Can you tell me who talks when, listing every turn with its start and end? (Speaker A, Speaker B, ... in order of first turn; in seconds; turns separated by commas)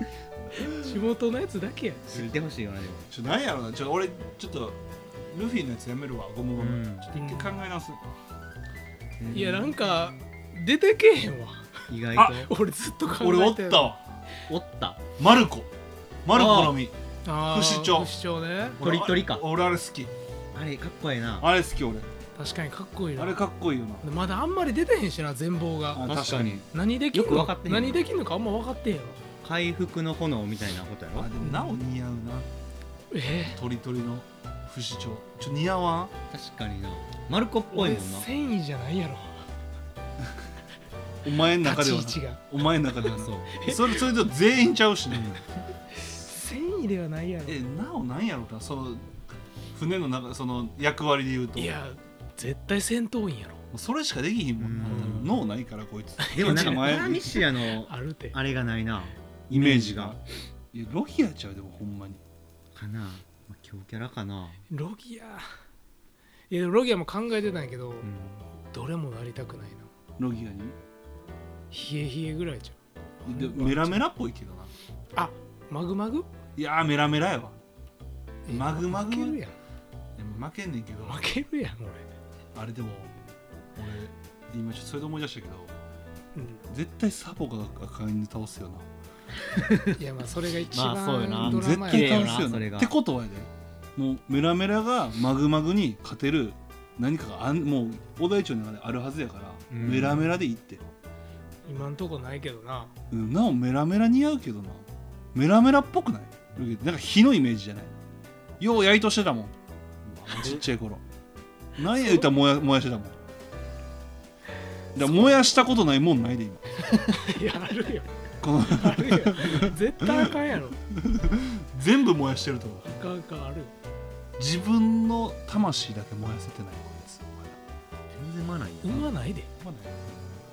Speaker A: 0.5-2.1, Speaker B: 2.1-3.1, Speaker C: 3.1-8.0, Speaker B: 6.5-7.1, Speaker A: 7.2-7.6, Speaker B: 9.2-9.7, Speaker A: 9.3-11.8, Speaker B: 11.9-12.5, Speaker C: 12.2-12.5, Speaker A: 12.4-14.0, Speaker C: 13.1-14.0, Speaker B: 14.5-15.0, Speaker C: 15.2-15.7, Speaker C: 16.2-18.1, Speaker B: 16.3-16.8, Speaker A: 17.2-18.8, Speaker C: 18.8-20.1, Speaker B: 18.8-19.4, Speaker B: 20.5-21.5, Speaker C: 21.4-22.1, Speaker A: 22.4-23.4, Speaker C: 23.2-24.0, Speaker A: 24.0-26.1, Speaker C: 25.9-26.7, Speaker B: 26.0-28.0, Speaker A: 26.7-29.2, Speaker B: 29.4-31.3, Speaker C: 31.2-32.5, Speaker A: 31.4-31.8, Speaker A: 33.1-33.6, Speaker C: 33.5-36.1, Speaker B: 36.3-38.3, Speaker A: 37.7-39.4, Speaker C: 41.2-45.4, Speaker A: 41.6-42.4, Speaker B: 43.0-43.5, Speaker A: 43.5-44.0, Speaker B: 45.1-45.5, Speaker A: 45.9-47.6, Speaker C: 47.5-49.1, Speaker C: 49.7-51.7, Speaker A: 51.6-53.6, Speaker C: 53.7-57.4, Speaker B: 54.6-55.4, Speaker A: 54.9-55.3, Speaker A: 56.2-57.1, Speaker B: 56.4-60.2, Speaker A: 57.9-58.4, Speaker C: 59.5-62.2, Speaker B: 62.7-64.6, Speaker A: 64.7-65.5, Speaker A: 66.5-68.1, Speaker B: 68.0-68.5, Speaker A: 68.7-69.9, Speaker C: 70.2-70.8, Speaker A: 71.7-74.0, Speaker C: 73.2-74.7, Speaker A: 75.2-76.3, Speaker C: 76.6-77.6, Speaker A: 78.5-79.5, Speaker C: 78.5-79.4, Speaker C: 80.2-81.2, Speaker A: 81.0-82.1, Speaker C: 82.5-83.1, Speaker C: 83.8-85.7, Speaker A: 86.3-86.6, Speaker C: 86.7-88.9, Speaker B: 89.5-89.9, Speaker A: 89.9-92.4, Speaker B: 90.7-92.9, Speaker C: 91.4-100.8, Speaker B: 99.7-100.3, Speaker A: 101.7-102.9, Speaker C: 103.1-107.9, Speaker C: 108.6-109.5, Speaker C: 110.2-111.0, Speaker B: 110.3-110.6, Speaker C: 111.8-113.2, Speaker C: 115.0-116.9, Speaker A: 116.9-118.1, Speaker C: 118.4-120.3, Speaker A: 118.7-120.8, Speaker C: 121.0-122.9, Speaker A: 122.8-123.7, Speaker C: 124.4-127.6, Speaker B: 128.1-129.1, Speaker A: 128.8-129.5, Speaker C: 129.6-130.2